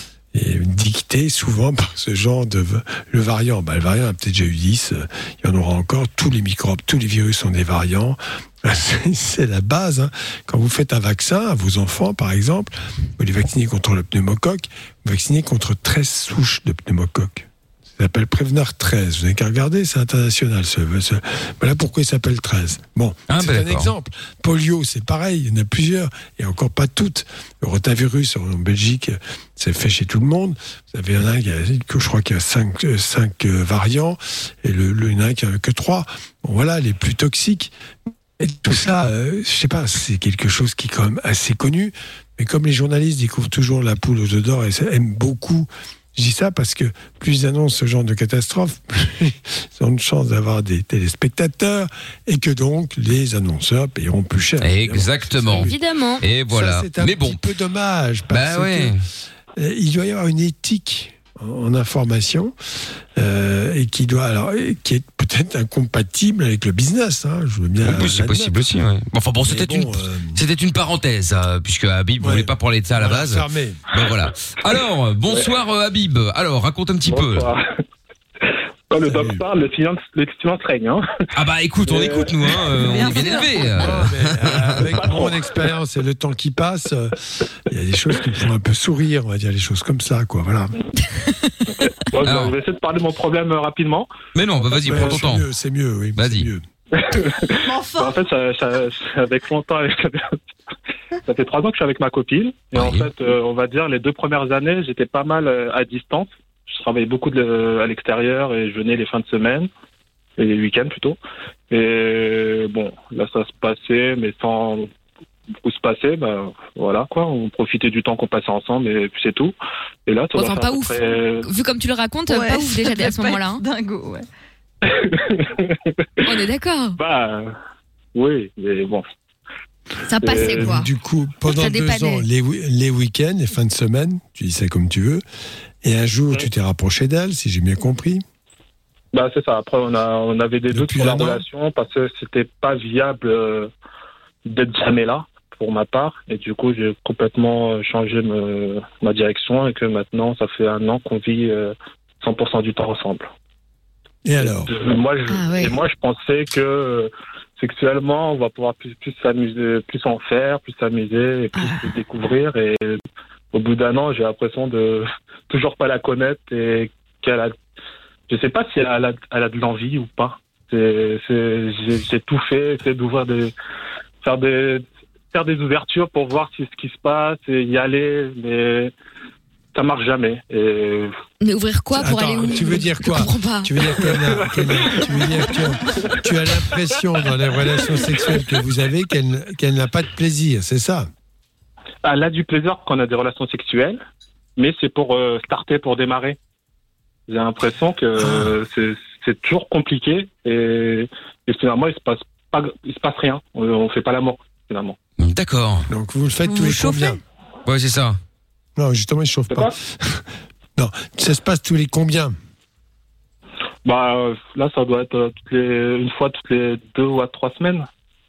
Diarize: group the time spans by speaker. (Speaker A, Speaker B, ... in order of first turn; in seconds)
Speaker A: 0.3-37.7, 38.4-55.8, 56.5-58.9, 59.5-62.5, 63.1-68.5, 69.4-70.4, 72.2-73.8, 79.0-79.4, 83.8-87.2, 87.7-90.7, 94.8-96.6, 130.4-135.2, 135.8-138.2, 140.7-141.4, 154.2-154.7, 181.9-191.1, 198.2-198.6, 205.9-207.2, 208.8-212.3
Speaker B: 23.3-23.9, 54.6-57.4, 58.3-59.0, 67.8-77.5, 81.3-85.1, 92.2-92.5, 94.3-95.4, 96.2-96.5, 102.7-103.1, 205.2-205.9, 207.7-208.2
Speaker C: 55.5-56.2, 91.2-91.5, 120.3-123.6, 126.2-127.0, 130.1-130.9, 131.4-132.2, 155.3-155.8, 161.5-161.9, 181.4-183.7
Speaker D: 77.0-77.6, 78.9-81.0, 81.9-82.3, 84.9-85.5, 92.1-94.1, 94.8-95.2, 96.9-100.3, 101.3-109.7, 110.4-111.2, 111.7-114.9, 115.6-119.5, 120.1-121.5, 124.8-125.8, 127.0-127.5, 128.1-129.0, 130.2-130.8, 139.1-143.7, 144.4-153.3, 154.4-163.0, 163.5-167.5, 168.3-173.5, 174.2-178.9, 179.7-181.1, 184.2-185.3, 186.1-187.0, 192.0-194.0, 194.6-196.4, 197.3-205.0, 213.8-217.9
Speaker E: 82.6-84.0, 97.6-98.2, 122.3-124.2, 206.5-207.1